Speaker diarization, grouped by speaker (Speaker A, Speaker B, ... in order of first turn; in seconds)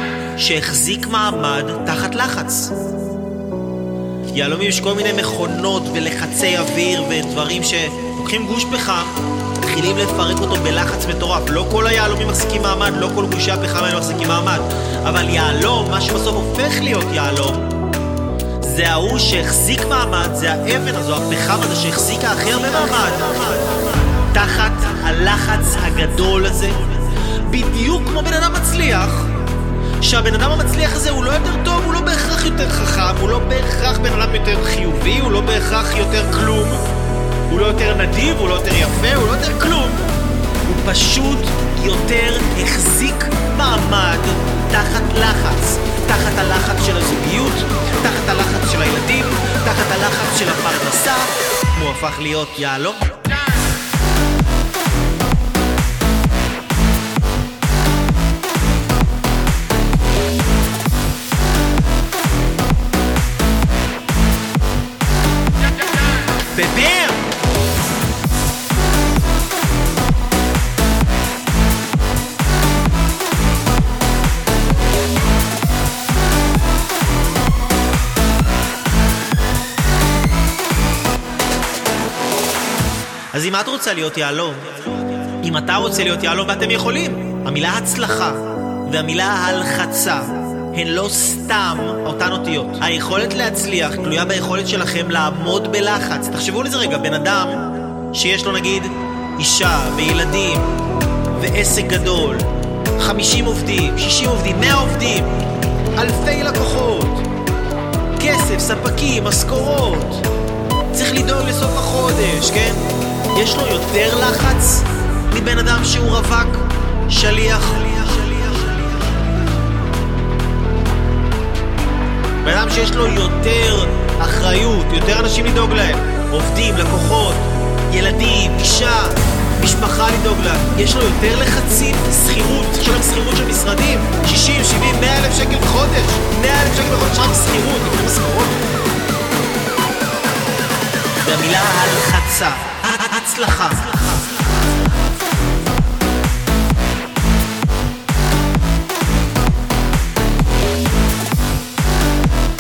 Speaker A: 0.4-2.7, 4.3-17.7, 18.6-26.9, 27.4-29.4, 30.0-36.9, 37.5-40.0, 40.7-53.2, 66.5-67.3, 83.3-100.7, 101.3-105.4, 106.0-107.3, 108.2-110.2, 110.9-119.1, 122.4-138.6, 141.2-144.2